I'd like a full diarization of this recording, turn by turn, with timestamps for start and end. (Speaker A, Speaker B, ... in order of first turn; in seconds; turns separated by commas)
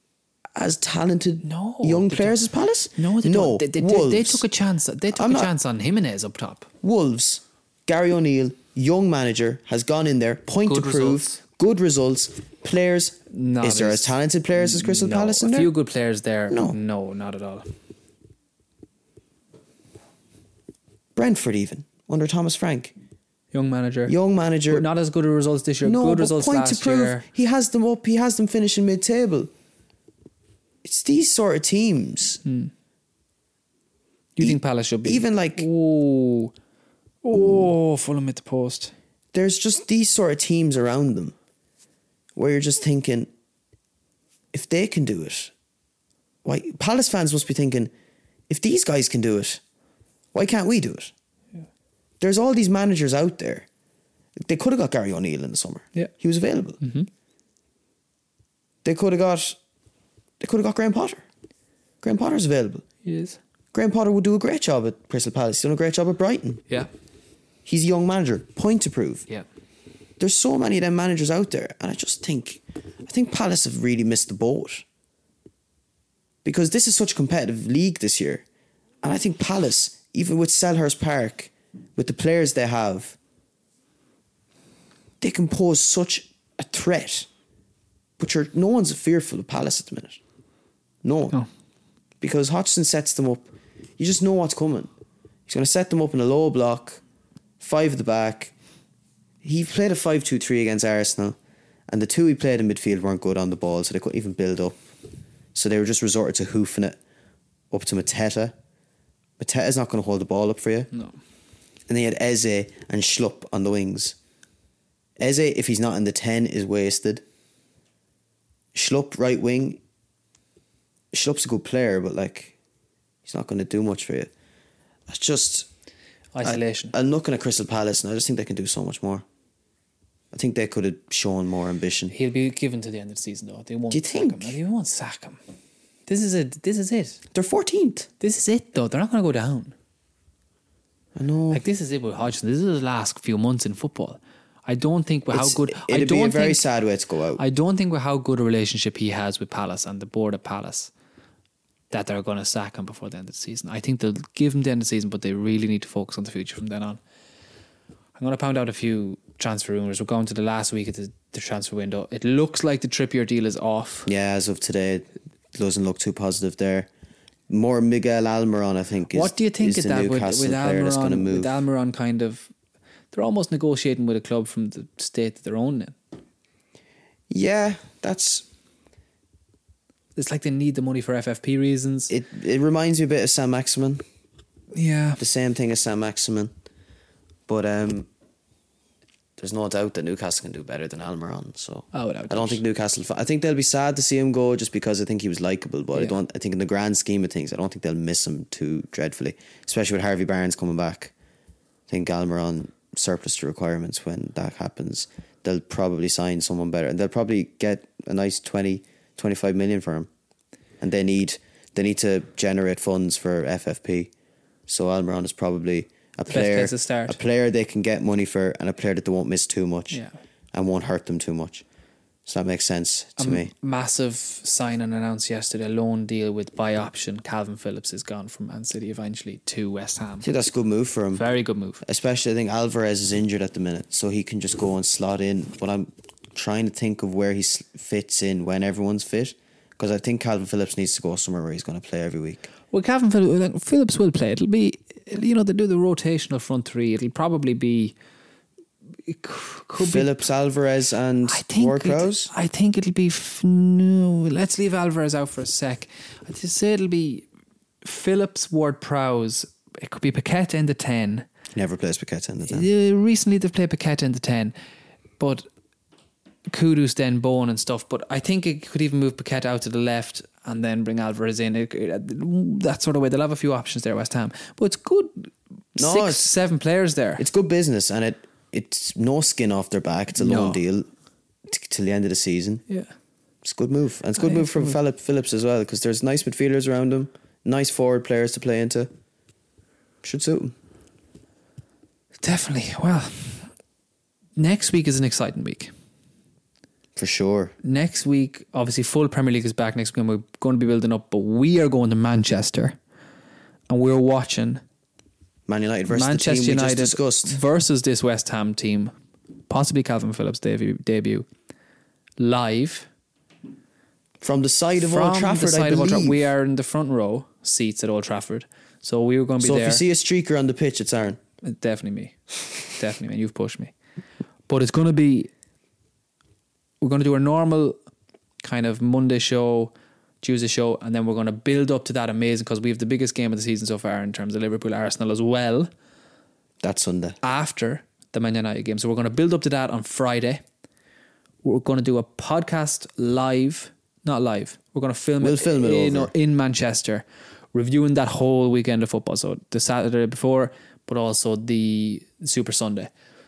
Speaker A: 0.6-4.4, Speaker B: 1.4-6.7, Speaker A: 5.1-5.5, Speaker A: 6.8-15.7, Speaker B: 10.7-11.4, Speaker B: 13.3-17.7, Speaker A: 16.5-16.8, Speaker A: 21.1-22.9, Speaker B: 23.5-24.1, Speaker A: 24.1-24.9, Speaker B: 24.7-27.3, Speaker A: 25.8-29.5, Speaker A: 30.8-32.4, Speaker B: 32.4-32.7, Speaker B: 34.4-36.5, Speaker A: 34.4-35.7, Speaker B: 37.2-38.9, Speaker A: 37.3-37.7, Speaker A: 39.3-41.4, Speaker A: 42.4-43.3, Speaker A: 44.5-45.5, Speaker A: 46.4-47.9, Speaker A: 48.5-49.6, Speaker A: 50.3-51.1, Speaker A: 52.2-53.7, Speaker A: 54.4-56.8, Speaker B: 56.8-57.1, Speaker A: 58.8-59.6, Speaker A: 60.4-61.2, Speaker A: 62.0-62.9, Speaker B: 63.0-63.4, Speaker A: 63.7-66.6, Speaker A: 67.7-69.3, Speaker A: 70.2-74.8, Speaker A: 76.4-78.5, Speaker A: 79.0-83.2, Speaker A: 85.2-87.3, Speaker A: 88.2-90.2, Speaker A: 91.0-91.4, Speaker A: 92.2-94.9, Speaker A: 95.5-97.0, Speaker A: 97.6-98.5, Speaker A: 99.4-101.4, Speaker A: 101.9-104.8, Speaker A: 105.5-107.0, Speaker A: 107.7-108.5, Speaker A: 109.4-110.9, Speaker A: 111.9-114.2, Speaker A: 115.2-117.2, Speaker A: 118.7-119.8, Speaker A: 121.1-122.5, Speaker A: 123.3-124.3, Speaker A: 125.1-125.7, Speaker B: 126.3-127.0, Speaker A: 126.4-129.2, Speaker A: 130.3-132.2, Speaker B: 132.1-135.4, Speaker A: 133.9-134.6, Speaker B: 136.1-137.2, Speaker A: 137.3-138.1, Speaker B: 138.2-139.8, Speaker A: 141.2-141.6, Speaker B: 141.5-146.7, Speaker A: 145.3-147.4, Speaker B: 147.4-150.9, Speaker B: 151.9-157.0, Speaker B: 158.2-164.1, Speaker A: 164.1-166.9, Speaker A: 167.5-171.6, Speaker B: 169.1-172.5, Speaker B: 173.1-176.0, Speaker A: 177.3-178.5, Speaker B: 180.2-182.1, Speaker A: 182.1-184.0, Speaker B: 184.7-185.2, Speaker A: 185.2-186.5, Speaker A: 187.5-188.1, Speaker A: 189.4-201.1, Speaker B: 191.9-192.6, Speaker A: 201.9-210.1, Speaker A: 210.8-214.1, Speaker A: 214.7-220.0, Speaker B: 216.3-217.2, Speaker B: 219.9-220.2, Speaker A: 220.5-221.6, Speaker A: 222.3-223.5, Speaker B: 223.2-230.3, Speaker A: 230.2-231.2, Speaker B: 231.1-231.8, Speaker A: 231.8-242.5, Speaker B: 242.7-247.9, Speaker B: 249.1-250.2, Speaker A: 249.8-252.3, Speaker B: 251.2-257.3, Speaker B: 257.8-261.3, Speaker A: 261.5-262.7, Speaker B: 262.5-264.6, Speaker B: 265.2-265.5, Speaker B: 266.5-277.2, Speaker A: 275.8-276.3, Speaker A: 277.2-280.9, Speaker B: 280.2-280.6, Speaker A: 281.5-282.6, Speaker A: 283.4-288.9, Speaker B: 284.2-284.8, Speaker A: 290.0-290.5, Speaker B: 292.2-293.5, Speaker B: 294.4-295.7, Speaker A: 297.0-297.5, Speaker B: 297.6-302.8, Speaker B: 303.7-304.6, Speaker A: 305.5-307.4, Speaker B: 305.9-308.9, Speaker B: 309.5-311.3, Speaker B: 312.2-312.9, Speaker A: 314.2-316.3, Speaker B: 314.8-319.8, Speaker A: 319.4-321.2, Speaker B: 321.4-323.7, Speaker B: 324.5-325.3, Speaker B: 326.8-327.8, Speaker B: 328.4-335.7, Speaker A: 336.6-337.2, Speaker B: 337.2-340.4, Speaker B: 341.4-352.9, Speaker A: 345.2-346.1